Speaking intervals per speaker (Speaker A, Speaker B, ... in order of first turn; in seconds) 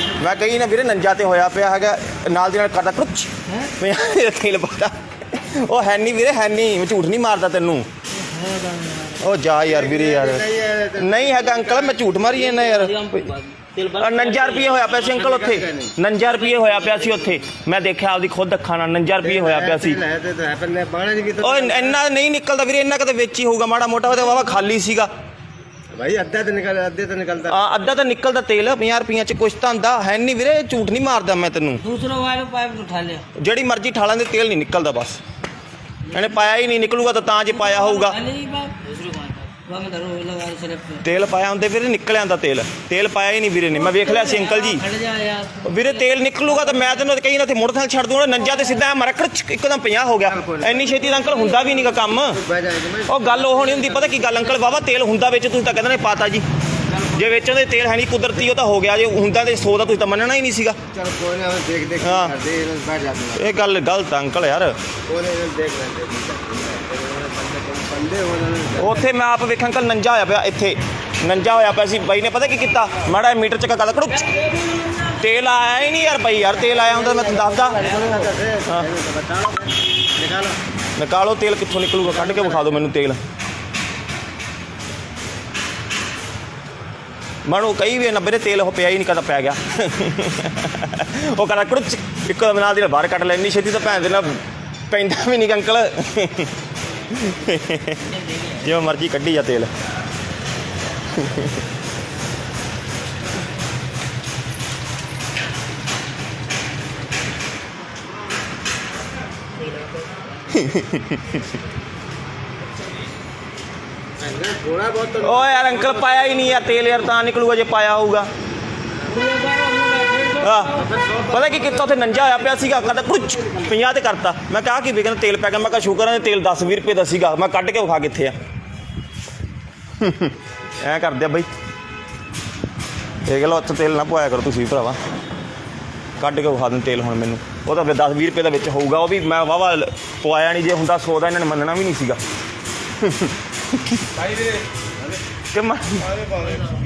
Speaker A: 0.2-7.9, 9.2-10.4, 11.0-13.3, 13.9-20.0, 21.4-25.1, 27.5-31.8, 33.4-35.2, 36.1-38.2, 41.0-44.9, 45.6-52.4, 53.1-56.5, 57.1-60.8, 62.0-62.3, 63.4-64.8, 68.8-74.4, 75.0-77.9, 81.0-83.2, 87.5-96.5, 97.1-99.7, 101.2-101.5, 110.5-111.4, 115.2-118.3, 120.4-128.4, 130.0-131.5, 133.3-135.0, 136.2-142.2, 143.0-144.0, 145.5-146.1
Speaker B: 8.2-9.2, 12.2-15.1, 16.3-17.1, 31.8-33.3, 36.1-41.0, 43.7-47.0, 51.4-51.7, 74.3-75.0, 77.8-78.2, 119.1-120.9
Speaker C: 9.7-12.1, 15.0-15.9, 19.2-22.0, 25.9-27.6, 50.3-51.0, 52.2-53.8, 60.9-63.5, 65.1-69.1, 76.9-80.6, 82.2-82.7, 114.2-116.4, 120.8-121.7